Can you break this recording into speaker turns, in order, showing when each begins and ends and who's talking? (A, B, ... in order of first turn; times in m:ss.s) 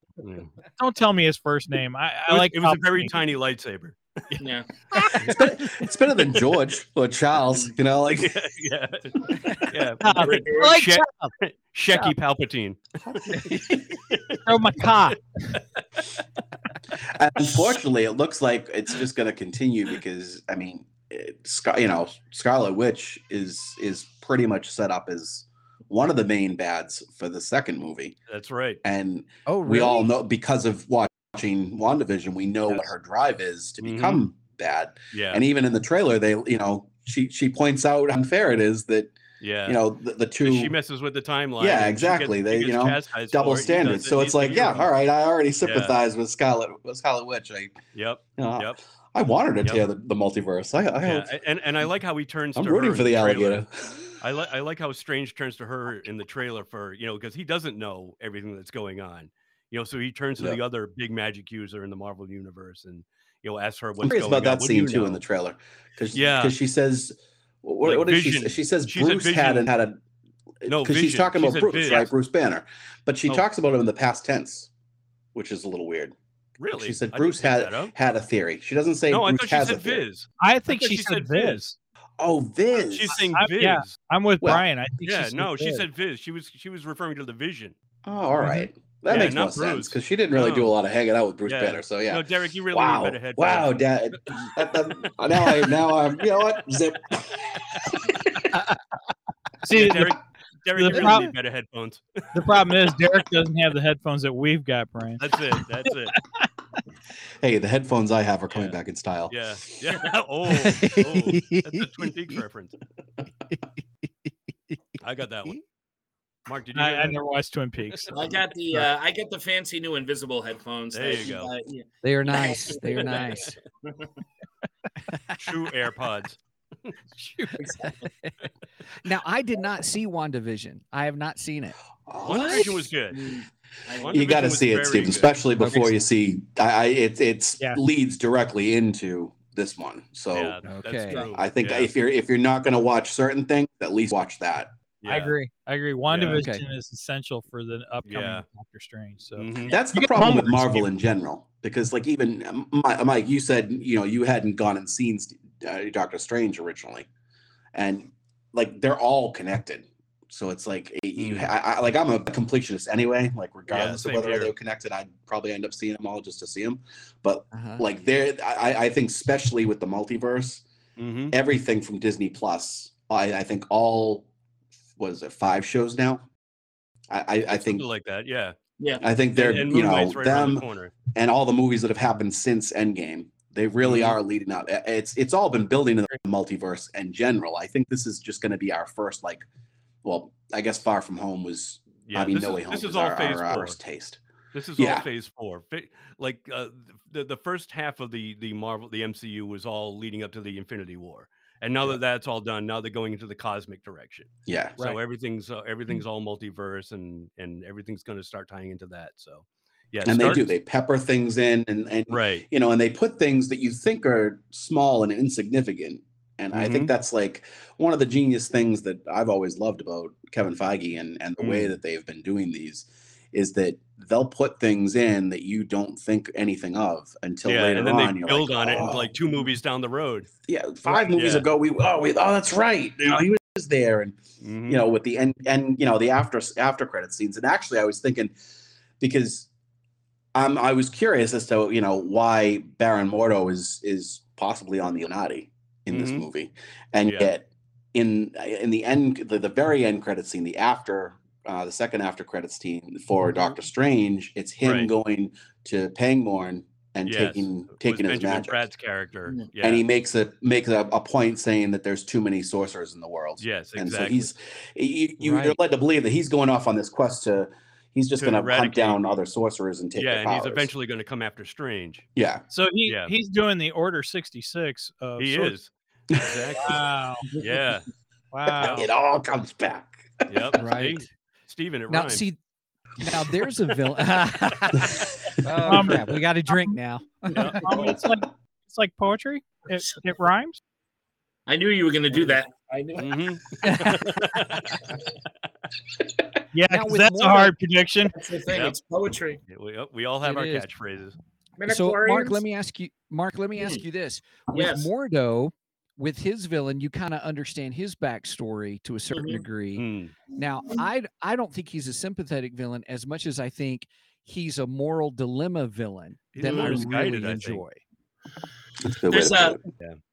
0:00.2-0:00.5 A
0:00.8-0:03.1 B
0:02.3-0:04.4 A
0:04.4-0:04.7 C
0:04.9-0:05.2 B
0:05.1-0:08.4 D
0:08.1-0:13.5 A
0:10.0-0:11.3 B
0:10.2-0:10.8 C
0:13.2-0:13.9 D
0:13.3-0:13.8 E
0:14.1-0:14.4 A
0:14.4-0:15.6 B
0:17.0-0:28.2 D
0:28.3-0:28.8 A
0:28.8-0:40.8 D
0:29.4-0:30.1 E
0:33.8-0:34.2 A
0:35.1-0:35.4 A
0:39.4-0:39.8 A
0:40.4-0:44.9 A
0:41.6-0:47.8 D
0:45.6-0:45.9 A
0:47.9-0:48.8 A
0:48.4-0:51.3 D
0:51.0-0:53.6 A
0:52.6-0:54.0 D
0:54.2-1:05.2 A
1:04.0-1:10.0 D
1:06.1-1:06.5 A
1:07.8-1:09.7 A
1:10.6-1:14.7 D
1:10.6-1:12.1 A
1:15.3-1:16.1 D
1:16.6-1:17.9 A
1:16.7-1:20.0 D
1:19.1-1:21.6 A
1:20.4-1:21.8 B
1:22.2-1:23.3 D
1:22.8-1:23.9 A
1:23.3-1:25.8 B
1:25.0-1:27.7 A
1:28.0-1:38.6 D
1:29.1-1:30.7 A
1:31.4-1:35.5 A
1:39.6-1:40.1 B
1:39.7-1:42.3 A
1:40.8-1:41.3 B
1:42.3-1:45.2 B
1:45.2-1:46.2 A
1:47.4-1:49.4 D
1:48.5-1:48.8 A
1:49.3-1:52.8 A
1:50.5-1:52.1 E
1:53.5-1:55.6 E
1:55.0-1:55.6 A
1:56.5-1:57.2 A
1:56.7-1:58.2 B
1:58.1-2:04.1 C
2:00.9-2:01.5 A
2:02.0-2:03.5 E
2:03.0-2:03.3 A
2:05.0-2:05.4 E
2:05.4-2:06.9 A
2:07.2-2:07.6 B
2:07.6-2:08.0 C
2:07.8-2:08.3 E
2:09.0-2:11.7 E
2:12.1-2:12.8 D
2:12.2-2:13.2 A
2:12.2-2:14.5 C
2:14.0-2:15.3 A
2:14.1-2:20.7 D
2:15.6-2:16.0 E
2:20.3-2:21.9 A
2:20.6-2:21.2 E
2:21.3-2:24.7 D
2:25.0-2:25.3 A
2:25.0-2:30.9 B
2:26.1-2:26.4 A
2:26.3-2:26.6 E
2:28.0-2:28.4 A
2:29.4-2:29.8 A
2:29.7-2:37.1 D
2:37.7-2:50.6 D
2:41.2-2:41.5 A
2:43.7-2:44.5 A
2:47.5-2:47.8 E
2:51.0-2:51.3 A
2:51.3-2:54.3 D
2:55.0-2:56.3 D
2:57.1-2:57.8 D
2:57.5-2:58.6 A
2:58.8-2:59.5 C
2:59.0-3:09.4 D
2:59.3-3:01.0 A
3:03.8-3:04.2 A
3:10.0-3:14.2 D
3:12.0-3:13.8 A
3:14.5-3:30.5 A
3:14.8-3:15.1 D
3:24.4-3:24.8 D
3:30.0-3:49.1 D
3:32.1-3:32.4 A
3:36.5-3:36.9 A
3:41.4-3:41.8 A
3:47.4-3:50.3 A
3:50.5-3:58.3 D
3:50.8-3:51.5 A
3:54.4-3:54.8 A
3:59.0-3:59.5 D
4:00.3-4:18.6 D
4:05.9-4:06.2 A
4:07.0-4:07.3 A
4:14.6-4:14.9 A
4:17.0-4:19.8 A
4:19.6-4:30.7 D
4:23.4-4:24.3 A
4:25.2-4:25.6 E
4:28.2-4:29.1 A
4:30.0-4:32.1 A
4:32.2-4:32.4 D
4:32.5-4:35.5 B
4:32.8-4:33.1 A
4:35.2-4:36.8 A
4:36.1-4:36.6 D
4:36.6-4:37.2 B
4:37.4-4:37.9 A
4:38.3-4:38.9 B
4:38.6-4:38.8 A
4:38.6-4:40.3 D
4:40.3-4:42.2 A
4:40.5-4:41.0 E
4:41.9-4:42.4 E
4:43.0-4:47.6 E
4:45.6-4:46.0 B
4:47.3-4:47.6 A
4:47.4-4:48.0 C
4:47.6-4:50.6 B
4:51.5-4:53.1 C
4:53.0-4:54.9 A
4:53.6-4:54.1 E
4:56.5-4:58.1 B
4:56.7-4:57.5 E
4:58.1-4:59.4 C
4:58.5-4:58.8 A
4:59.5-5:01.2 A
5:00.2-5:00.7 E
5:01.6-5:02.4 C
5:01.7-5:17.8 E
5:03.6-5:03.8 C
5:04.5-5:04.9 C
5:09.1-5:09.4 C
5:09.8-5:10.1 A
5:16.3-5:17.6 A
5:16.4-5:16.9 C
5:18.8-5:19.6 D
5:19.1-5:19.6 C